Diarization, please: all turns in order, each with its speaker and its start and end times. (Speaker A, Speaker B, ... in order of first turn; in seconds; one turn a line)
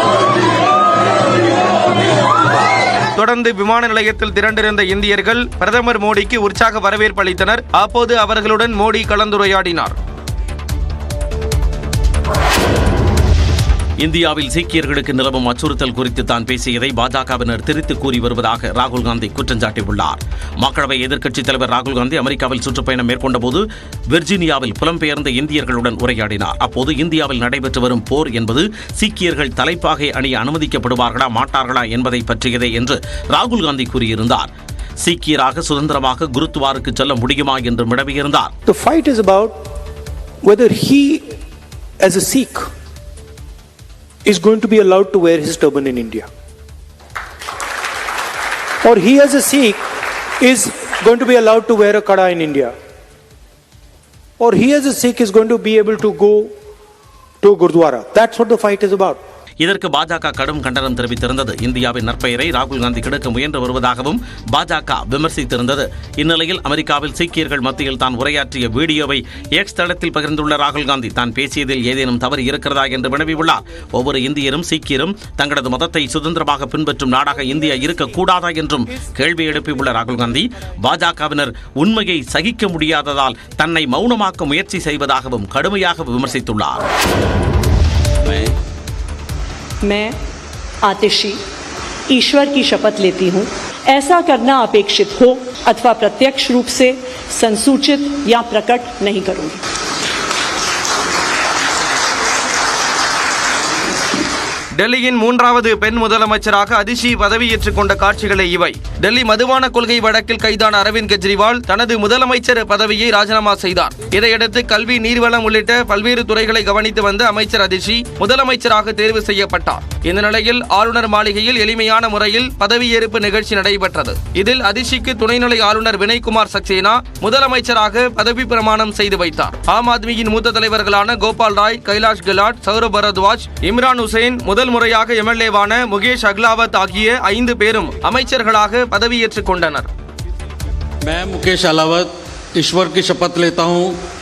Speaker A: 3.1-9.9
Speaker B: 14.0-34.5
Speaker B: 35.0-38.5
Speaker C: 38.6-39.5
Speaker C: 40.4-41.2
Speaker C: 42.0-42.7
Speaker C: 44.2-46.3
Speaker C: 48.8-49.8
Speaker C: 50.4-52.7
Speaker C: 54.4-56.5
Speaker C: 57.4-59.2
Speaker B: 59.6-86.8
Speaker D: 89.8-90.1
Speaker D: 90.8-91.4
Speaker D: 92.1-99.6
Speaker A: 104.8-139.9
Speaker E: 141.0-144.0